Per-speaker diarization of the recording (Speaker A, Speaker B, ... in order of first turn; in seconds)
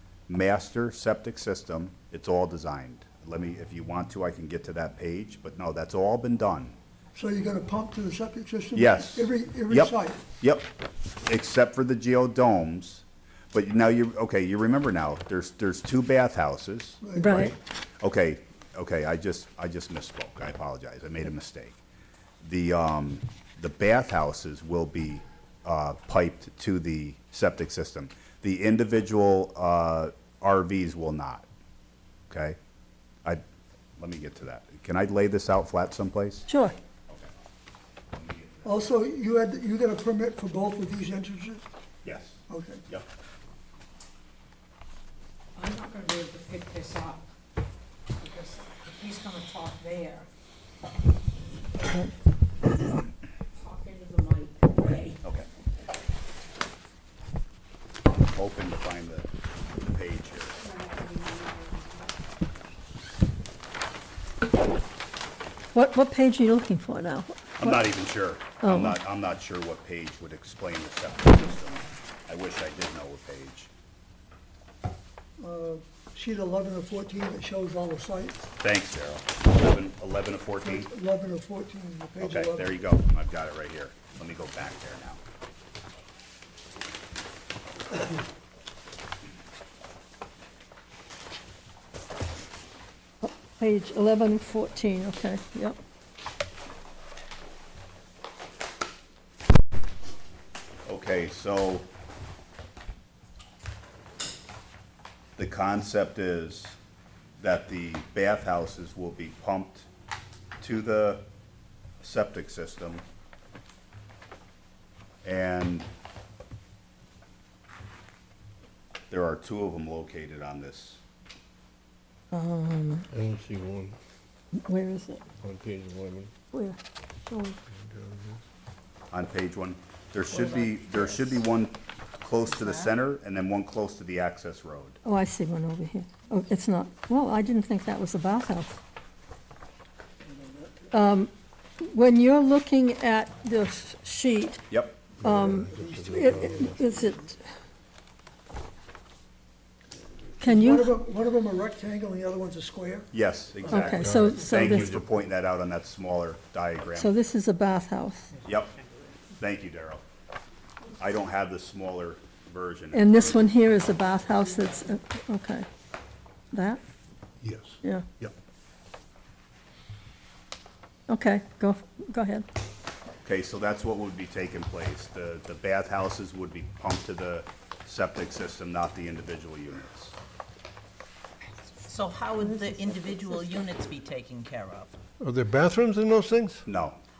Speaker A: 0.3-6.7, 8.7-10.7, 11.2-21.8, 22.4-31.4, 32.3-32.6, 34.0-36.5, 38.1-38.9, 42.0-43.0, 58.1-60.6, 67.6-73.7, 78.6-80.9, 82.2-85.2, 100.8-101.9, 105.4-106.8, 107.4-109.9, 110.6-111.2, 112.0-113.0, 115.2-115.9, 119.1-121.0, 129.1-135.0, 144.7-145.0, 153.1-157.1, 158.4-158.7, 159.4-160.0, 161.0-163.5, 173.2-180.1, 186.7-187.0
Speaker B: 7.1-10.2, 17.0-17.5, 38.6-41.6, 42.5-42.8, 75.4-78.5, 80.6-82.7, 140.3-140.8, 145.2-147.3, 150.4-153.1
Speaker C: 17.1-17.5, 36.5-36.8, 65.7-67.8, 68.6-69.0, 93.2-95.8, 122.3-123.1, 124.5-125.2, 126.5-127.6, 135.0-138.8, 140.9-144.6, 145.2-147.4, 150.4-150.9, 153.7-155.0, 156.9-158.3, 162.9-165.7, 166.5-166.8, 171.1-172.4
Speaker D: 45.5-47.2, 48.2-50.3, 53.5-55.2, 60.6-62.1
Speaker E: 123.1-124.0, 125.4-126.3, 127.8-128.4, 145.3-146.9, 153.9-155.1, 167.4-168.3, 185.2-186.7
Speaker F: 130.3-131.3, 132.5-132.9, 181.8-184.9